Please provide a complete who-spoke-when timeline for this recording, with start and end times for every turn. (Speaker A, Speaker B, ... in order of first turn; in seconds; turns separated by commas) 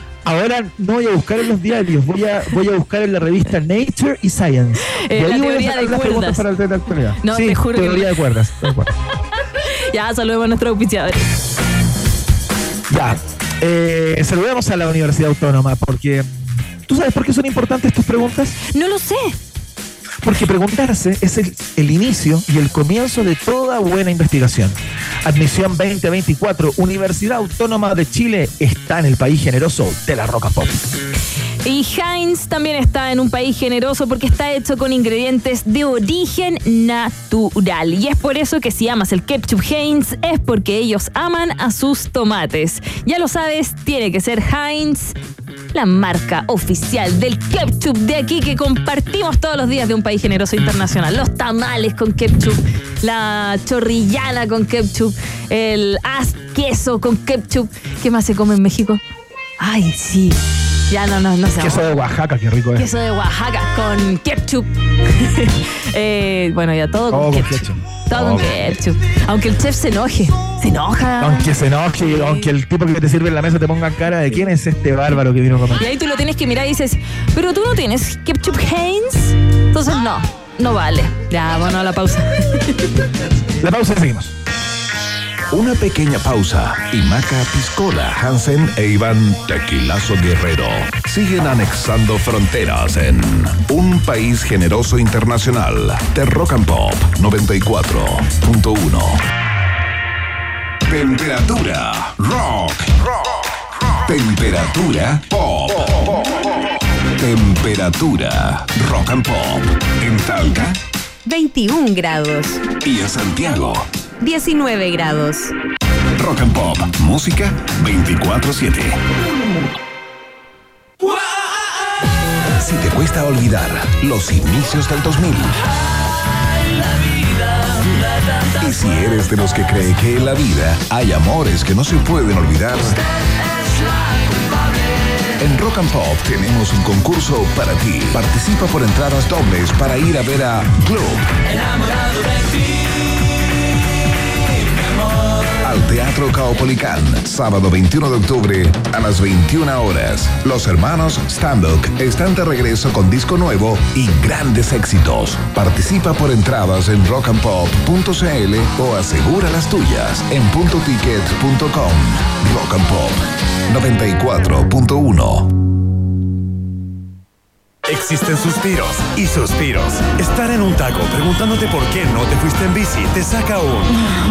Speaker A: 0.2-8.9, Speaker B: 4.9-6.4, Speaker B: 7.2-8.1, Speaker B: 9.3-11.3, Speaker A: 12.9-18.6, Speaker B: 18.7-19.3, Speaker A: 20.2-30.8, Speaker B: 31.6-45.2, Speaker B: 45.7-59.0, Speaker B: 59.6-61.9, Speaker A: 61.6-62.9, Speaker B: 62.8-72.5, Speaker A: 67.1-68.7, Speaker A: 71.2-75.8, Speaker B: 75.8-82.9, Speaker A: 83.6-84.3, Speaker C: 85.5-99.2, Speaker C: 100.9-102.9, Speaker C: 104.0-106.3, Speaker C: 107.2-110.8, Speaker D: 111.2-112.7, Speaker C: 112.8-113.8, Speaker D: 114.2-115.5, Speaker C: 116.2-119.0, Speaker C: 122.6-125.6, Speaker C: 128.5-133.0, Speaker C: 135.4-141.3, Speaker C: 145.6-165.5, Speaker E: 167.8-173.9